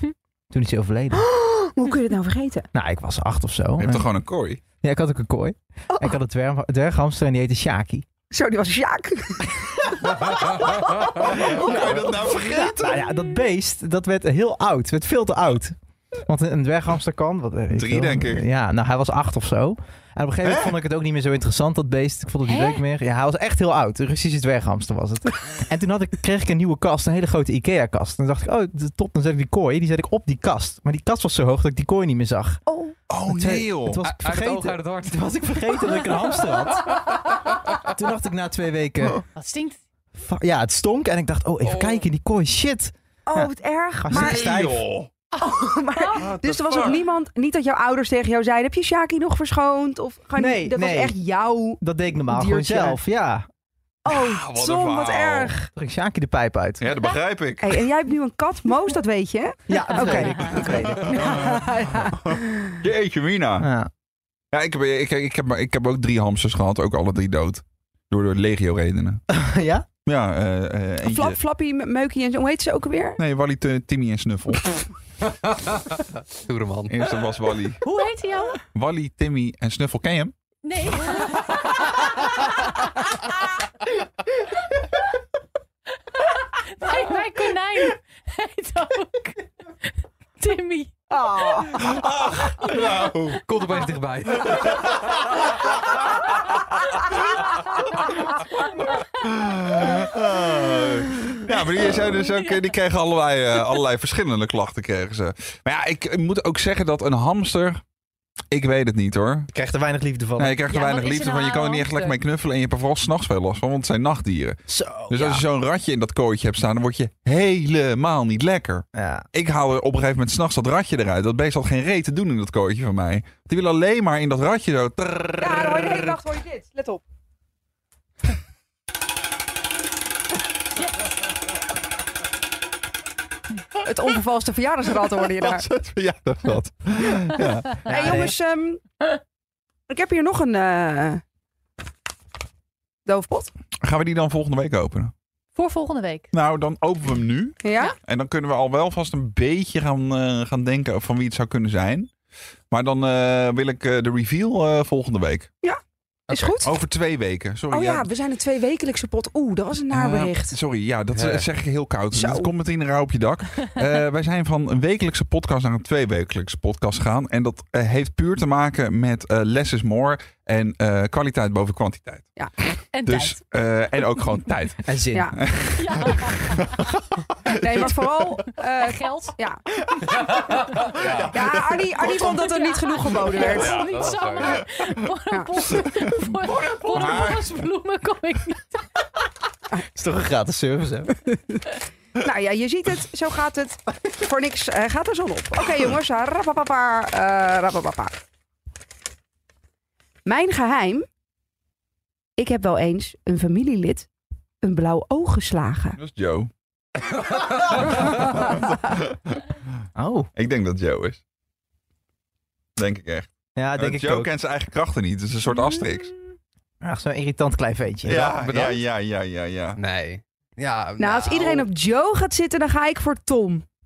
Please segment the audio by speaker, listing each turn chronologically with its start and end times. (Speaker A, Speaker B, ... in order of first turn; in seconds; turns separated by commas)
Speaker A: 0.5-1.2, Speaker B: 1.2-2.7, Speaker A: 2.7-4.1, Speaker C: 3.8-4.6, Speaker A: 4.7-8.1, Speaker B: 8.3-12.7, Speaker C: 11.2-13.0, Speaker A: 12.8-32.6, Speaker C: 17.7-18.4, Speaker C: 20.5-20.7, Speaker D: 22.5-22.8, Speaker B: 32.7-33.0, Speaker C: 33.1-34.0, Speaker A: 33.3-37.1, Speaker E: 34.0-36.4, Speaker A: 37.9-39.2, Speaker D: 39.4-39.8, Speaker A: 40.2-44.9, Speaker E: 41.6-42.1, Speaker B: 43.3-44.5, Speaker C: 44.1-45.1, Speaker D: 45.4-46.2, Speaker B: 45.4-53.0, Speaker C: 46.1-47.0, Speaker A: 50.4-51.2, Speaker A: 51.8-53.5, Speaker B: 54.0-55.7, Speaker C: 54.1-55.5, Speaker A: 55.8-56.8, Speaker C: 56.8-57.7, Speaker B: 57.6-62.6, Speaker A: 59.7-61.6, Speaker C: 60.5-63.7, Speaker A: 63.6-63.9, Speaker C: 64.5-69.2, Speaker A: 69.3-69.9, Speaker C: 70.0-71.4, Speaker B: 71.0-73.2, Speaker C: 73.2-74.8, Speaker E: 75.5-77.0, Speaker C: 76.9-77.8, Speaker D: 77.8-78.6, Speaker C: 78.7-80.3, Speaker D: 80.6-81.7, Speaker D: 86.1-90.9, Speaker B: 91.1-91.9, Speaker D: 91.5-93.1, Speaker C: 91.9-93.5, Speaker E: 93.4-95.4, Speaker C: 99.2-107.8, Speaker D: 102.3-102.6, Speaker C: 108.5-109.5, Speaker A: 109.5-110.6, Speaker C: 110.4-126.2, Speaker D: 110.7-112.2, Speaker A: 114.7-115.4, Speaker A: 119.0-119.2, Speaker B: 125.4-127.0, Speaker B: 133.8-135.7, Speaker C: 135.2-137.9, Speaker B: 137.8-138.8, Speaker A: 137.9-138.3, Speaker B: 139.9-141.2, Speaker B: 143.1-143.5, Speaker C: 143.8-145.1, Speaker D: 145.6-146.3, Speaker C: 146.3-152.1, Speaker B: 147.6-147.9, Speaker C: 152.7-155.5, Speaker E: 156.3-156.6, Speaker B: 156.3-156.8, Speaker C: 156.6-158.1, Speaker B: 157.7-160.6, Speaker C: 159.9-172.3, Speaker E: 161.1-161.5, Speaker B: 162.1-162.5, Speaker D: 172.9-173.4, Speaker C: 173.1-177.0, Speaker A: 174.8-175.4, Speaker D: 175.8-176.8, Speaker D: 177.5-177.9, Speaker B: 177.6-179.8, Speaker D: 178.8-179.3, Speaker E: 180.2-181.4, Speaker B: 181.3-183.8, Speaker D: 182.0-188.9, Speaker E: 183.5-184.6, Speaker C: 186.6-187.6, Speaker A: 189.7-191.5, Speaker B: 192.2-198.2, Speaker B: 200.3-201.0, Speaker B: 202.4-204.1, Speaker B: 204.6-206.0, Speaker C: 206.0-206.5, Speaker C: 207.4-209.4, Speaker A: 210.0-210.3, Speaker C: 210.4-211.2, Speaker C: 212.8-216.2, Speaker A: 213.6-214.3, Speaker A: 216.8-218.4, Speaker C: 218.0-219.8, Speaker E: 218.3-218.8, Speaker E: 219.8-221.7, Speaker B: 221.0-223.6